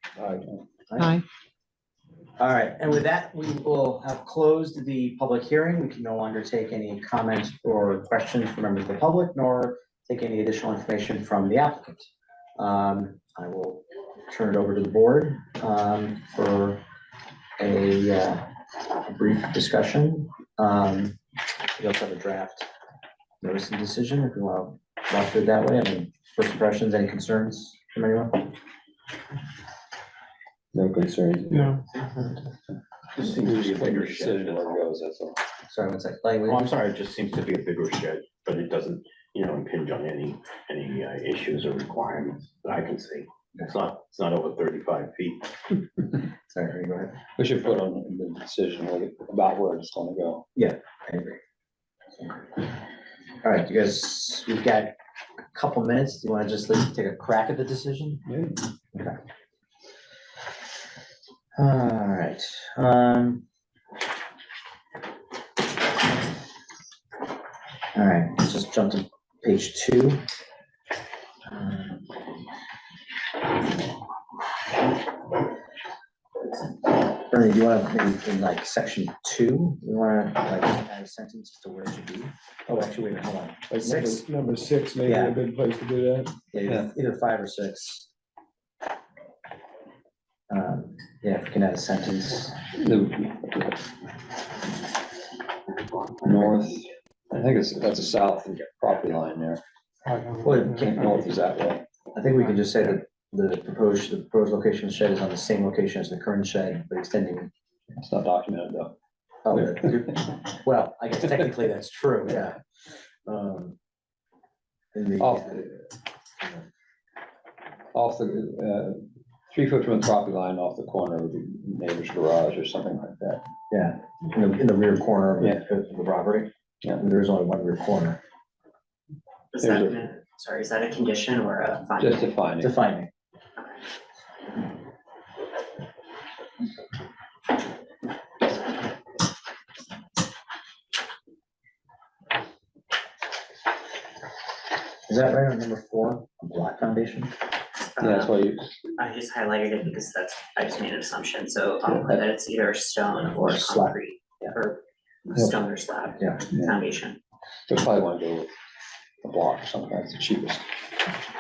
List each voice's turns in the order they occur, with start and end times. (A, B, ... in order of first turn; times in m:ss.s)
0:00.9-0:01.2 A
0:02.4-0:16.8 A
0:17.6-0:21.2 A
0:21.8-0:22.7 A
0:23.4-0:28.5 A
0:31.5-0:31.8 B
0:33.2-0:34.8 C
0:33.2-0:35.4 D
0:35.7-0:36.7 A
0:36.5-0:45.8 C
0:46.5-0:47.1 A
0:47.4-0:50.5 D
0:50.6-0:51.4 A
0:53.4-0:54.9 A
0:55.5-0:58.2 A
0:58.3-0:58.6 D
1:01.6-1:03.4 A
1:08.0-1:10.2 A
1:11.5-1:12.0 A
1:17.1-1:24.2 A
1:23.7-1:26.3 B
1:25.0-1:25.4 A
1:26.5-1:28.1 A
1:30.5-1:32.6 A
1:32.7-1:33.8 D
1:36.2-1:39.6 D
1:40.1-1:41.2 B
1:40.4-1:41.8 D
1:40.5-1:40.8 A
1:42.2-1:47.5 A
1:48.0-1:49.0 D
1:49.4-1:52.6 A
1:53.3-1:53.8 A
1:54.9-1:55.8 A
1:55.2-1:55.7 D
1:57.9-2:03.4 D
2:03.7-2:08.2 A
2:09.5-2:12.3 E
2:09.6-2:10.0 D
2:12.0-2:12.7 D
2:12.6-2:13.1 A
2:25.1-2:27.3 A
2:28.0-2:28.3 E
2:28.0-2:28.7 D
2:29.0-2:37.2 E
2:33.3-2:34.5 A
2:37.7-2:38.5 D
2:39.2-2:40.7 D